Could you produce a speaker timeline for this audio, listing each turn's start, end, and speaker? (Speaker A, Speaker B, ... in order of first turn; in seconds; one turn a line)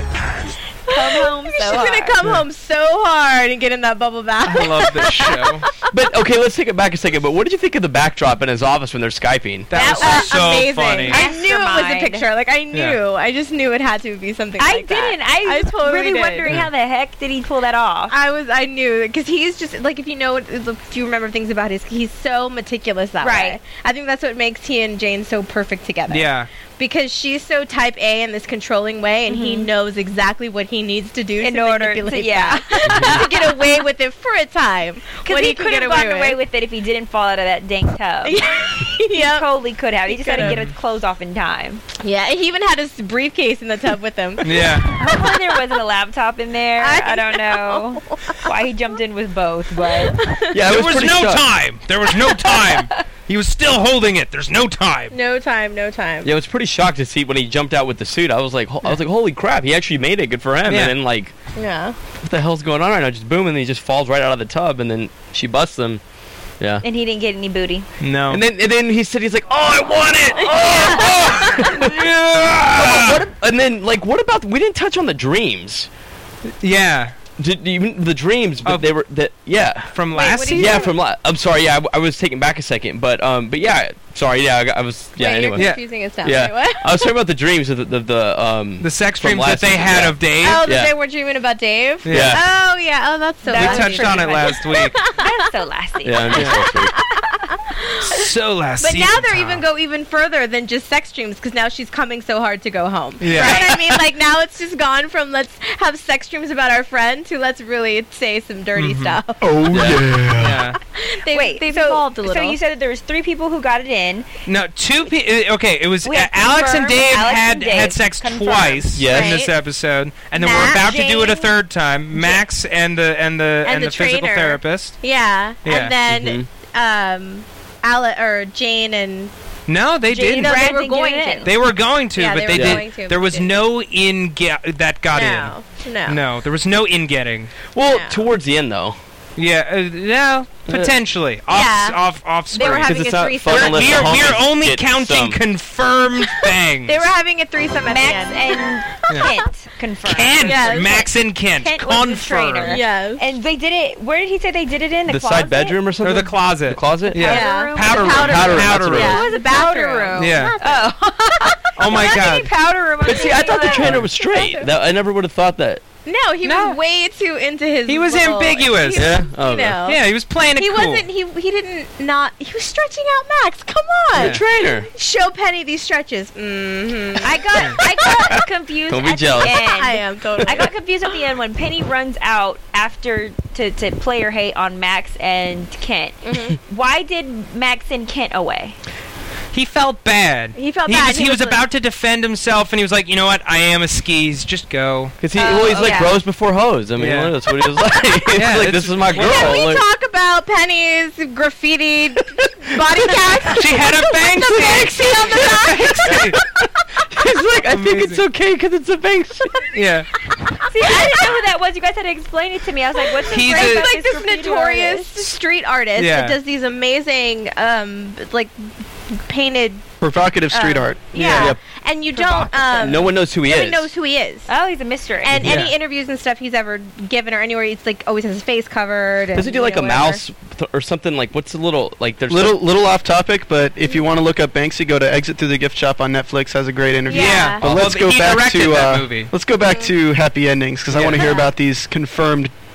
Speaker A: 0.9-2.2
Speaker B: 0.9-5.7
Speaker C: 4.4-5.7
Speaker D: 5.9-9.7
Speaker C: 9.7-11.2
Speaker B: 9.7-16.5
Speaker A: 9.8-10.4
Speaker A: 11.1-12.2
Speaker C: 12.7-13.0
Speaker A: 14.6-18.1
Speaker B: 18.1-36.4
Speaker A: 23.2-23.6
Speaker C: 26.1-26.5
Speaker A: 29.3-29.7
Speaker A: 31.4-33.6
Speaker A: 35.2-38.4
Speaker B: 38.2-39.5
Speaker A: 39.0-41.8
Speaker B: 40.1-40.6
Speaker C: 40.4-40.7
Speaker B: 42.0-45.6
Speaker C: 44.4-44.9
Speaker A: 45.0-50.2
Speaker B: 46.8-48.5
Speaker B: 50.0-50.6
Speaker D: 50.5-51.5
Speaker C: 50.6-55.1
Speaker B: 55.1-56.3
Speaker D: 56.2-61.3
Speaker C: 60.6-60.9
Speaker B: 61.5-62.0
Speaker D: 62.2-66.0
Speaker A: 66.8-67.9
Speaker C: 68.0-68.4
Speaker D: 68.3-75.9
Speaker B: 70.4-71.7
Speaker C: 71.1-73.2
Speaker C: 76.6-77.1
Speaker D: 77.4-80.0
Speaker C: 78.6-78.9
Speaker C: 79.9-80.8
Speaker B: 80.1-81.0
Speaker D: 80.5-90.9
Speaker B: 85.2-87.1
Speaker C: 85.5-85.8
Speaker C: 88.8-90.6
Speaker B: 90.4-95.4
Speaker C: 92.0-92.4
Speaker D: 92.1-92.4
Speaker A: 93.4-96.7
Speaker C: 93.5-95.0
Speaker D: 96.0-96.9
Speaker B: 96.4-98.3
Speaker C: 98.1-99.6
Speaker B: 98.8-109.5
Speaker C: 103.2-103.8
Speaker A: 103.3-103.7
Speaker C: 108.8-109.2
Speaker E: 109.4-110.6
Speaker D: 109.7-110.2
Speaker C: 110.4-110.8
Speaker B: 110.9-112.6
Speaker A: 111.3-114.3
Speaker C: 114.5-125.0
Speaker A: 116.0-119.0
Speaker D: 119.0-119.4
Speaker B: 119.1-119.5
Speaker B: 120.3-121.5
Speaker B: 122.1-122.4
Speaker B: 123.6-129.3
Speaker C: 125.6-126.0
Speaker D: 126.0-126.5
Speaker C: 129.7-130.8
Speaker A: 130.1-131.5
Speaker B: 130.2-131.5
Speaker C: 131.4-137.6
Speaker B: 132.1-133.5
Speaker D: 132.5-132.8
Speaker B: 135.1-136.2
Speaker D: 137.7-139.0
Speaker B: 137.8-138.2
Speaker C: 139.4-147.0
Speaker D: 140.7-140.9
Speaker B: 141.5-142.0
Speaker B: 142.5-144.4
Speaker D: 142.8-145.4
Speaker B: 146.8-149.3
Speaker A: 147.9-155.8
Speaker C: 150.1-152.8
Speaker B: 150.4-151.1
Speaker B: 152.6-153.2
Speaker D: 155.1-157.3
Speaker C: 156.0-159.2
Speaker A: 157.1-164.1
Speaker B: 157.2-162.2
Speaker D: 158.0-159.2
Speaker C: 160.2-160.6
Speaker C: 161.8-162.5
Speaker D: 163.0-165.8
Speaker B: 163.1-164.7
Speaker C: 163.8-164.1
Speaker B: 166.0-170.0
Speaker C: 166.4-166.8
Speaker C: 167.8-169.1
Speaker D: 168.9-169.8
Speaker C: 169.8-171.0
Speaker B: 170.5-178.3
Speaker C: 174.2-174.4
Speaker D: 174.2-174.9
Speaker A: 177.2-188.8
Speaker D: 178.9-179.6
Speaker B: 179.5-180.7
Speaker B: 186.2-186.6
Speaker C: 189.5-195.2
Speaker B: 190.6-191.6
Speaker D: 195.2-199.8
Speaker A: 195.3-196.1
Speaker B: 195.6-196.1
Speaker C: 197.0-197.3
Speaker C: 198.3-199.6
Speaker B: 199.1-206.2
Speaker C: 203.5-206.4
Speaker D: 204.5-205.5
Speaker D: 206.1-209.5
Speaker C: 207.7-208.2
Speaker C: 209.7-210.1
Speaker B: 210.5-211.3
Speaker A: 210.7-215.2
Speaker B: 213.1-218.6
Speaker C: 213.3-213.9
Speaker C: 215.9-216.4
Speaker B: 219.1-219.9
Speaker E: 220.0-221.2
Speaker A: 220.5-221.5
Speaker B: 220.5-224.5
Speaker D: 221.1-221.6
Speaker A: 222.1-223.1
Speaker D: 222.8-223.9
Speaker A: 224.5-225.4
Speaker B: 225.2-230.2
Speaker C: 225.4-225.7
Speaker D: 229.3-232.6
Speaker E: 232.3-242.5
Speaker B: 237.1-237.6
Speaker A: 237.1-237.5
Speaker C: 237.1-239.3
Speaker D: 237.6-237.9
Speaker B: 239.6-239.9
Speaker C: 240.9-241.3
Speaker B: 241.2-241.5